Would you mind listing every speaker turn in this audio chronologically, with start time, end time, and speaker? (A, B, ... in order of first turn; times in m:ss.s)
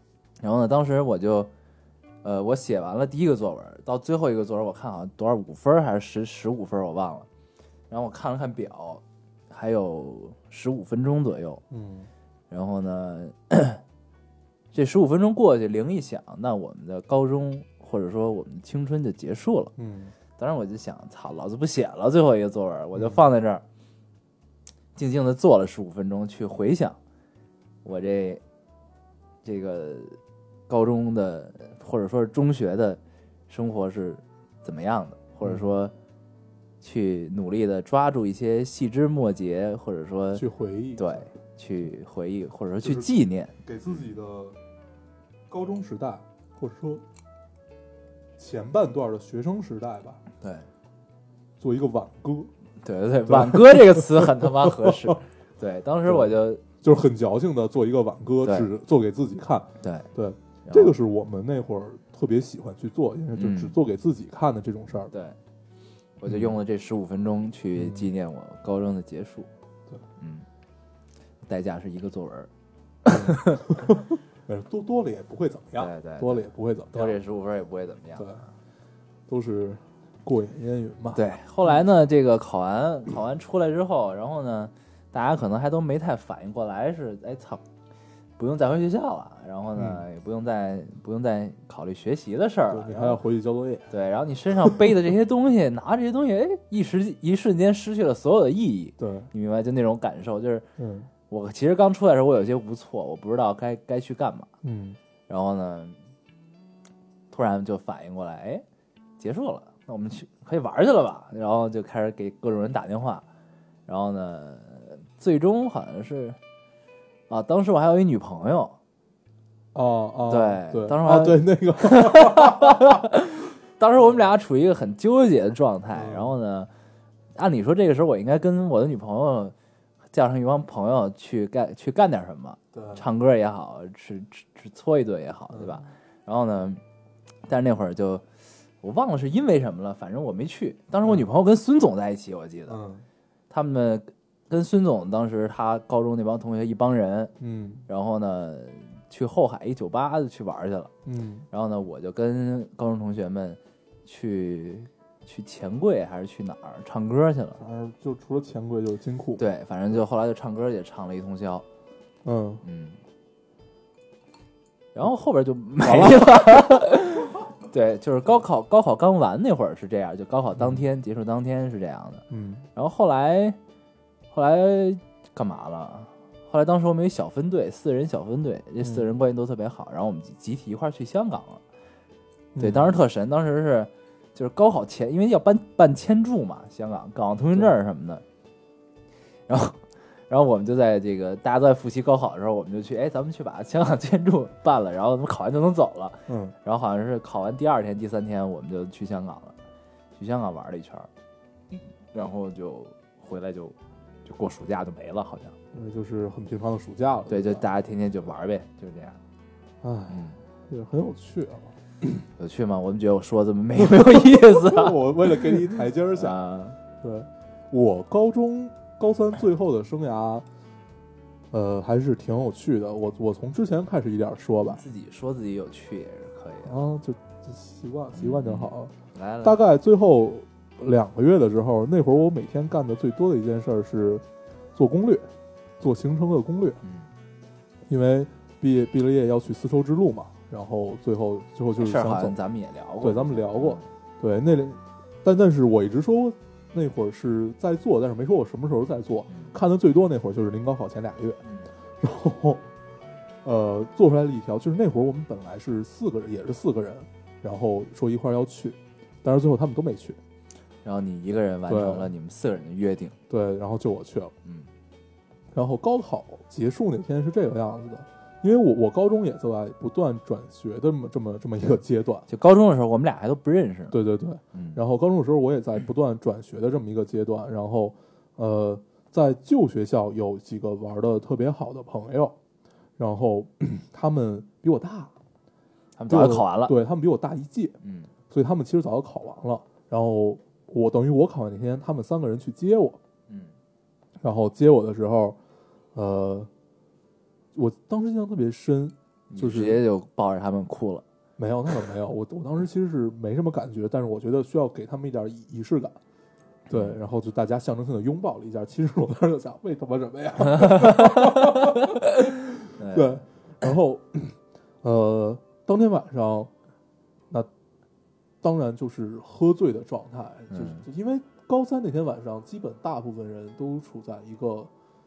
0:00.4-0:01.5 A
0:02.2-0:07.3 A
0:07.9-0:11.6 A
0:11.7-0:12.1 B
0:12.5-0:13.8 A
0:14.7-0:19.7 A
0:19.8-0:20.1 B
0:20.4-0:23.6 A
0:25.0-0:27.0 A
0:27.8-0:28.4 A
0:29.4-0:30.2 A
0:30.7-0:35.9 A
0:36.8-0:40.4 A
0:40.3-0:41.2 B
0:41.0-0:43.6 A
0:42.8-0:43.1 B
0:43.6-0:44.6 B
0:45.5-0:47.0 B
0:48.4-0:50.2 B
0:50.4-0:50.7 A
0:51.6-0:52.5 B
0:52.8-0:56.6 A
0:53.3-0:55.2 B
0:56.0-1:05.1 B
0:58.4-0:58.7 A
0:59.8-1:00.1 A
1:00.7-1:01.0 A
1:03.4-1:03.8 A
1:05.1-1:05.4 A
1:06.2-1:09.5 A
1:06.3-1:06.6 B
1:07.8-1:08.1 B
1:10.2-1:10.5 A
1:11.5-1:12.5 A
1:13.1-1:17.2 B
1:13.1-1:13.7 A
1:15.8-1:18.4 A
1:18.2-1:18.4 B
1:19.3-1:21.2 B
1:21.1-1:27.6 A
1:28.4-1:33.2 A
1:29.8-1:30.0 B
1:32.7-1:33.9 B
1:33.9-1:40.7 A
1:39.0-1:39.3 B
1:40.8-1:41.1 B
1:41.3-1:44.5 A
1:44.6-1:45.0 B
1:45.3-1:46.0 A
1:47.3-1:48.6 A
1:49.2-1:53.3 A
1:53.9-1:56.4 A
1:57.3-1:58.8 A
1:59.7-2:03.0 B
2:00.3-2:06.7 A
2:06.0-2:06.3 B
2:07.4-2:09.6 A
2:10.1-2:16.8 A
2:12.7-2:13.0 B
2:15.5-2:15.8 B
2:17.5-2:18.2 A
2:18.8-2:22.8 A
2:22.7-2:23.1 B
2:23.5-2:27.3 A
2:27.4-2:27.9 B
2:27.9-2:30.9 A
2:31.1-2:31.5 B
2:31.5-2:37.6 A
2:37.6-2:39.4 B
2:39.4-2:41.6 A
2:42.2-2:42.6 B
2:42.6-2:43.0 A
2:45.0-2:53.6 A
2:45.8-2:46.8 B
2:52.3-2:52.6 B
2:54.3-3:01.6 A
2:58.8-2:59.1 B
3:02.6-3:03.0 B
3:02.6-3:08.2 A
3:09.5-3:19.6 A
3:16.3-3:16.6 B
3:20.2-3:21.1 A
3:21.7-3:25.6 A
3:25.7-3:27.7 B
3:27.3-3:29.2 A
3:29.8-3:31.8 B
3:30.1-3:30.4 A
3:32.4-3:36.8 A
3:33.8-3:36.4 B
3:37.0-3:40.4 B
3:41.5-3:44.8 B
3:44.7-3:46.8 A
3:46.6-3:55.3 B
3:48.2-3:49.6 A
3:55.8-3:56.8 B
3:56.8-3:57.1 A
3:57.9-4:02.4 B
4:01.8-4:03.9 A
4:03.0-4:11.4 B
4:09.3-4:09.6 A
4:11.4-4:11.7 A
4:12.0-4:12.7 B
4:13.4-4:20.2 B
4:20.8-4:23.2 A
4:21.7-4:22.1 B
4:23.3-4:24.3 B
4:25.5-4:32.3 B
4:32.3-4:34.0 A
4:33.9-4:42.4 B
4:34.5-4:34.8 A
4:43.0-4:45.1 B
4:46.0-4:46.8 A
4:46.1-4:47.8 B
4:47.8-4:48.1 A
4:48.3-4:53.0 B
4:54.2-4:55.4 B
4:55.9-4:56.5 B
4:57.5-4:59.8 B
4:59.3-5:01.0 A
5:01.4-5:06.0 B
5:06.7-5:16.5 B
5:06.7-5:07.0 A
5:10.5-5:12.1 A
5:12.8-5:13.2 A
5:18.4-5:24.7 B
5:20.5-5:20.8 A